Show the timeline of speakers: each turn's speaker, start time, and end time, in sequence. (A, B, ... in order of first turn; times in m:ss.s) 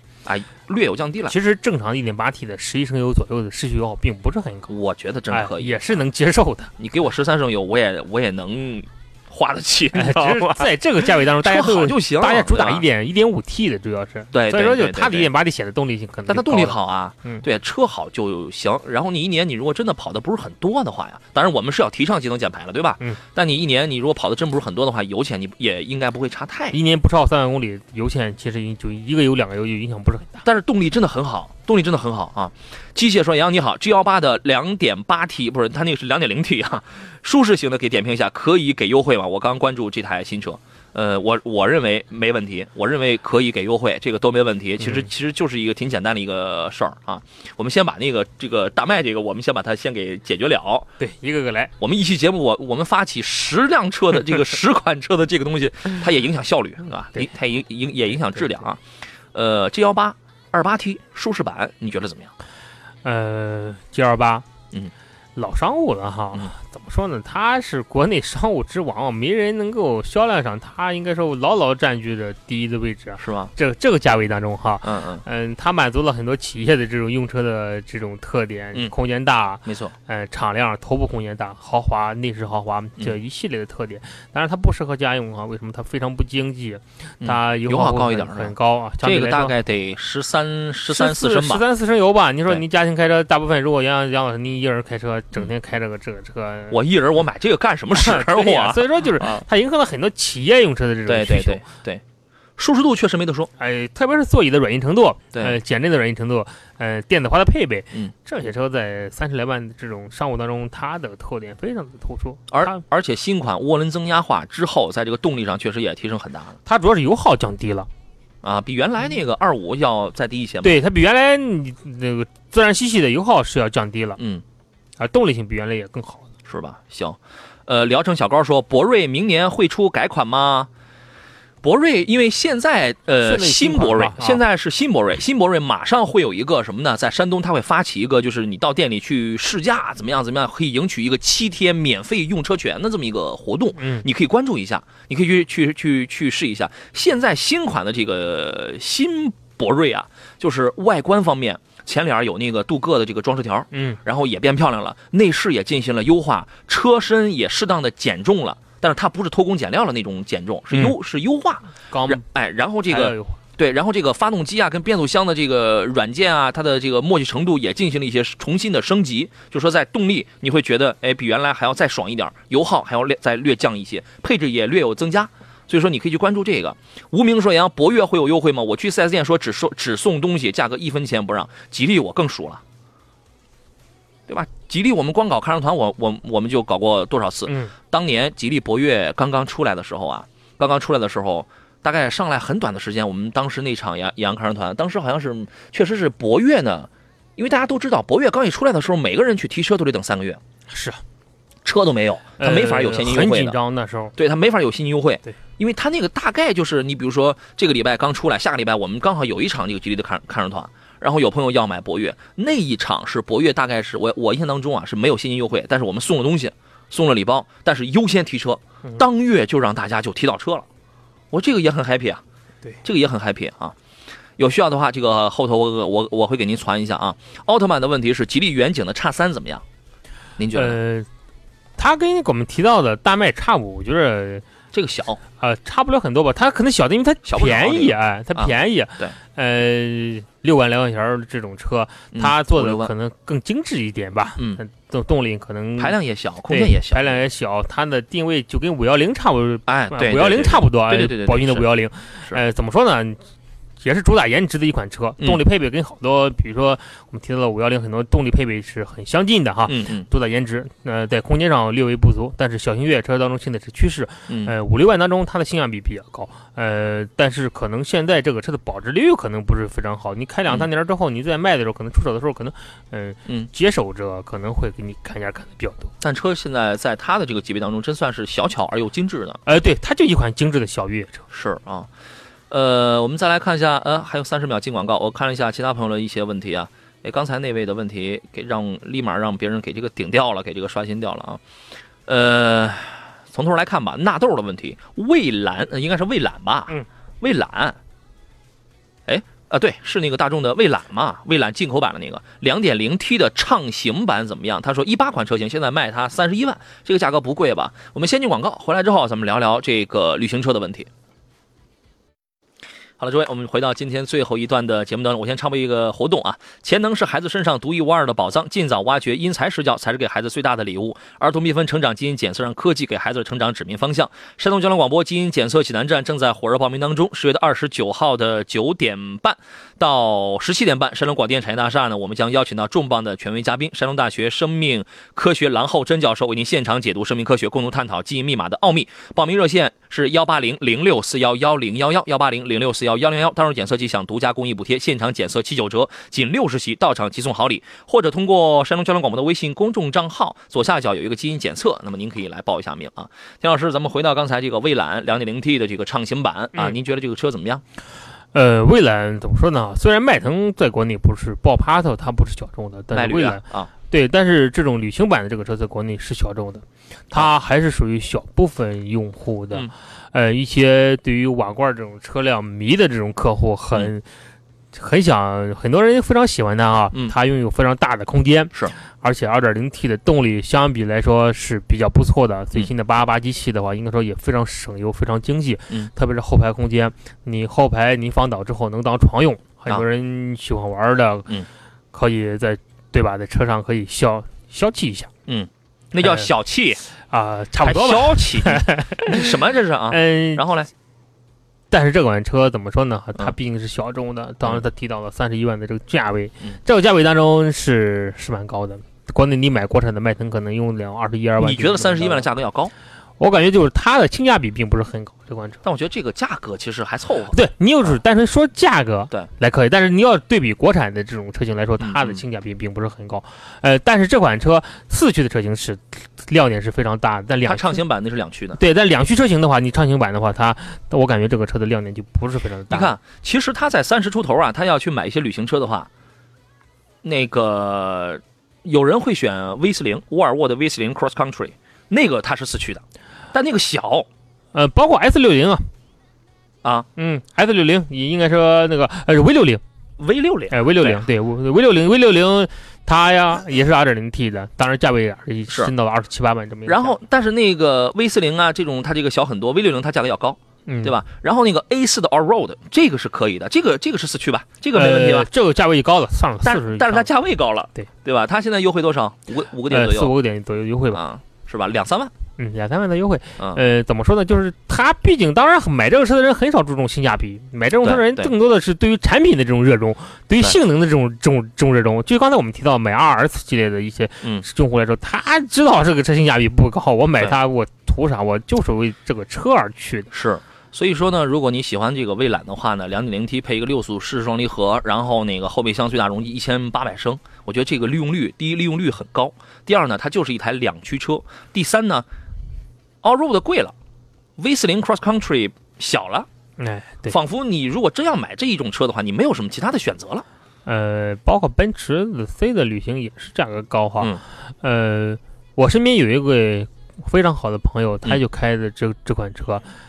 0:00.2-0:01.4 A
0:01.3-0:04.7 B
0:04.7-0:05.9 A
0:05.3-0:06.7 B
0:06.8-0:10.7 A
0:09.9-0:17.4 B
0:11.4-0:12.8 A
0:14.3-0:15.3 A
0:16.3-0:26.8 A
0:26.7-0:30.4 B
0:30.4-0:50.9 A
0:44.8-0:45.1 B
0:51.0-0:51.7 B
0:51.8-0:58.8 A
0:59.3-1:02.3 A
1:03.0-1:04.5 B
1:05.4-1:29.5 B
1:13.2-1:13.5 A
1:14.8-1:15.2 A
1:19.6-1:19.9 A
1:27.2-1:31.6 A
1:30.9-1:36.8 B
1:36.7-1:39.4 A
1:37.9-1:41.6 B
1:41.1-1:42.0 A
1:42.6-1:43.5 A
1:43.6-1:52.8 B
1:52.5-1:56.6 A
1:56.7-1:57.9 B
1:58.4-2:00.8 A
2:00.6-2:04.2 B
2:04.2-2:04.4 A
2:05.0-2:06.3 B
2:06.5-2:10.7 A
2:11.6-3:02.6 A
2:13.2-2:14.4 B
2:23.8-2:24.1 B
2:33.7-2:34.0 B
2:41.9-2:42.2 B
2:42.9-2:43.4 B
3:04.3-3:20.4 A
3:07.5-3:07.7 B
3:20.7-3:21.0 B
3:21.6-3:23.6 A
3:22.4-3:24.2 B
3:24.2-3:40.7 A
3:41.3-3:42.2 A
3:42.8-3:43.8 A
3:44.4-3:49.6 A
3:50.4-3:50.8 A
3:50.5-3:51.1 B
3:51.8-3:54.4 B
3:54.7-3:55.2 A
3:55.4-4:06.0 B
3:57.3-3:59.2 A
4:02.1-4:02.9 A
4:05.8-4:07.2 A
4:06.5-4:13.2 B
4:09.7-4:11.7 A
4:13.8-4:35.9 B
4:19.7-4:20.1 A
4:24.3-4:24.5 A
4:36.0-4:39.4 A
4:39.5-4:41.2 B
4:41.3-4:41.9 A
4:42.5-4:51.4 A
4:52.1-4:57.8 A
4:59.1-5:10.9 A
5:13.0-5:57.6 A
5:58.3-6:14.0 B
6:02.9-6:03.7 A
6:14.7-6:31.3 B
6:31.9-6:35.1 B
6:35.3-6:36.8 A
6:36.0-6:36.3 B
6:37.0-6:39.3 B
6:37.6-6:40.7 A
6:39.9-6:40.4 B
6:41.7-6:52.3 B
6:51.4-6:52.7 A
6:53.2-6:55.6 B
6:55.6-6:57.9 A
6:57.3-7:07.8 B
7:01.8-7:02.2 A
7:07.5-7:08.6 A
7:08.6-7:12.9 B
7:12.7-7:15.9 A
7:17.0-7:24.1 A
7:24.5-7:25.7 B
7:27.0-7:29.6 B
7:30.0-7:31.0 A
7:30.5-7:37.0 B
7:36.7-7:45.3 A
7:40.7-7:40.9 B
7:44.7-7:47.1 B
7:46.4-7:50.1 A
7:49.7-7:51.0 B
7:50.9-7:52.1 A
7:52.4-8:10.1 B
7:57.8-7:58.3 A
8:10.1-8:22.1 A
8:23.0-8:23.7 A
8:24.4-8:26.3 A
8:26.6-8:27.2 B
8:27.1-8:30.2 A
8:30.7-8:39.6 B